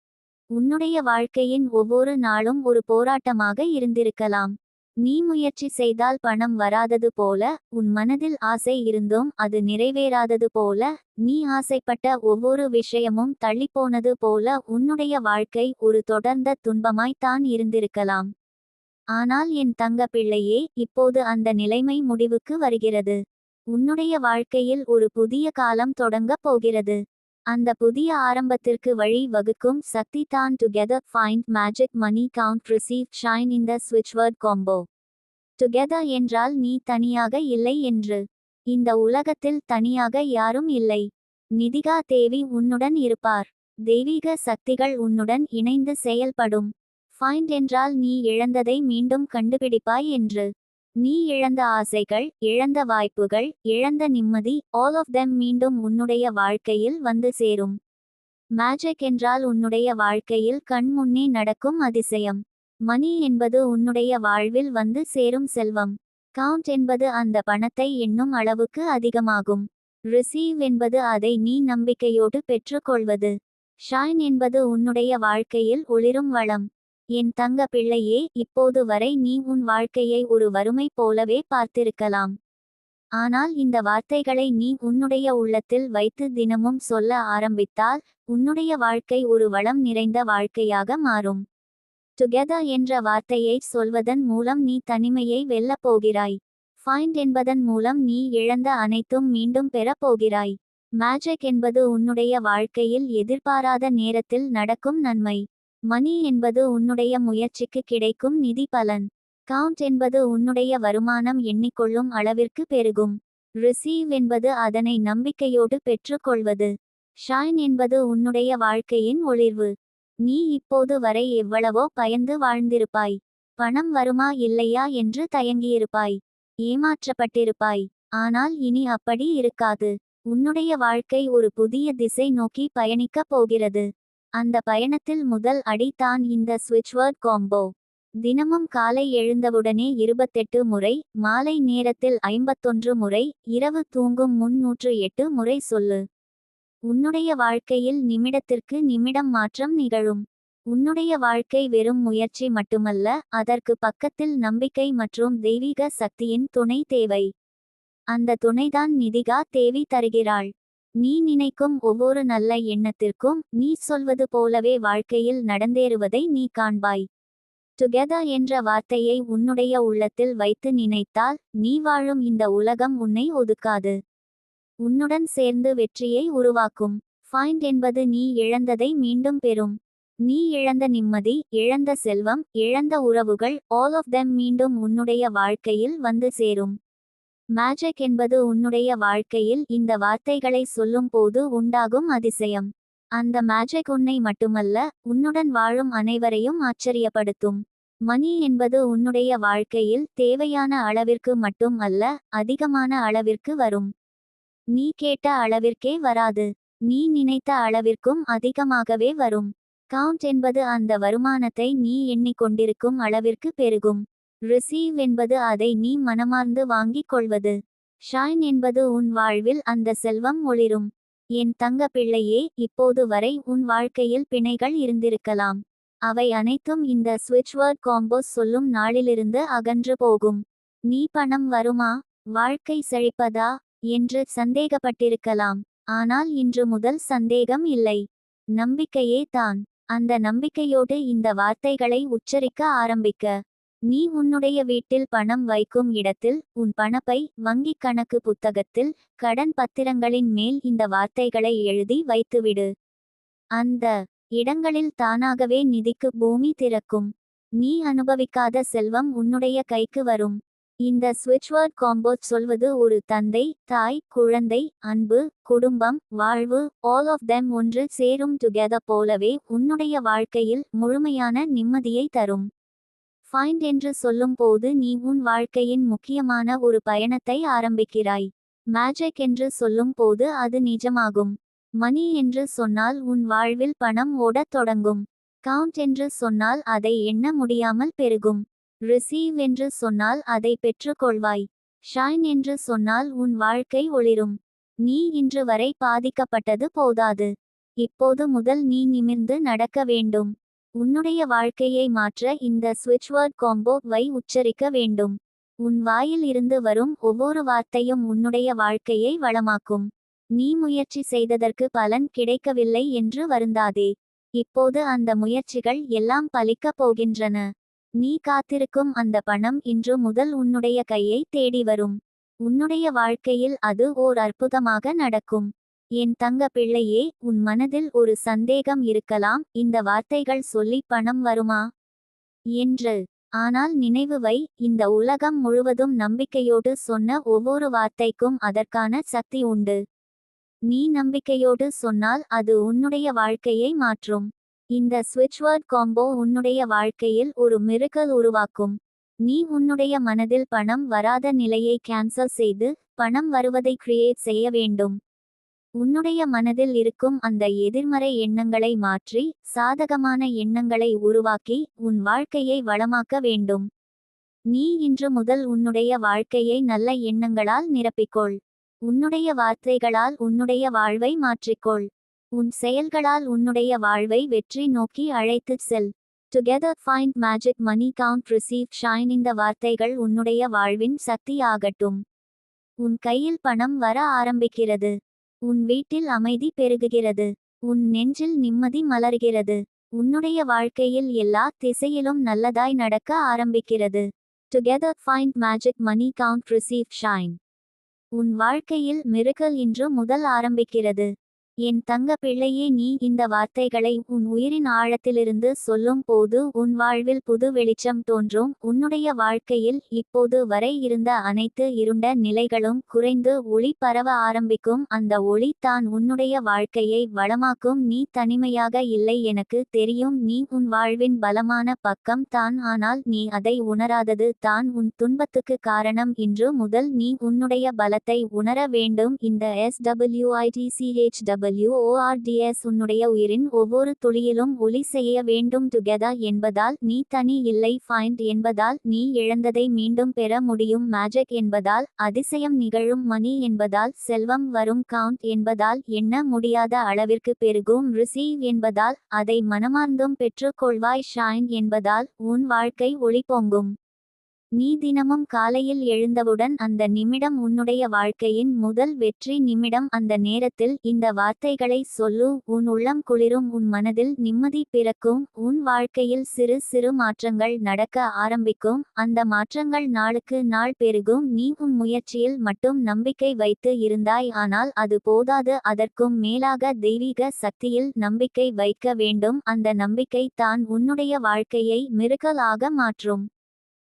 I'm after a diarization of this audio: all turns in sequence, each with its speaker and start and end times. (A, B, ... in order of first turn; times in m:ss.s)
0:00.5-0:04.5 A
0:05.0-0:18.3 A
0:19.2-0:23.2 A
0:23.7-0:27.0 A
0:27.5-0:34.8 A
0:35.6-0:41.0 A
0:41.6-0:50.5 A
0:51.0-0:57.8 A
0:58.6-1:13.3 A
1:13.8-1:16.6 A
1:17.2-1:22.3 A
1:23.2-1:31.4 A
1:32.2-1:56.7 A
1:57.2-1:59.7 A
2:00.2-2:13.8 A
2:14.4-2:17.7 A
2:18.2-2:26.0 A
2:26.9-2:37.3 A
2:38.1-2:40.5 A
2:41.0-2:47.0 A
2:47.8-2:53.9 A
2:54.8-2:59.7 A
3:00.2-3:06.7 A
3:07.6-3:23.9 A
3:24.7-3:37.5 A
3:38.1-3:58.0 A
3:58.6-4:03.3 A
4:03.9-4:12.7 A
4:13.6-4:32.4 A
4:33.3-4:57.3 A
4:57.8-5:17.4 A
5:18.0-5:25.5 A
5:26.0-5:31.6 A
5:32.6-5:39.8 A
5:40.7-5:55.0 A
5:55.8-6:03.6 A
6:04.5-6:22.0 A
6:22.8-6:24.9 A
6:25.4-6:37.4 A
6:38.2-6:41.1 A
6:41.6-7:33.7 A
7:34.6-8:03.2 A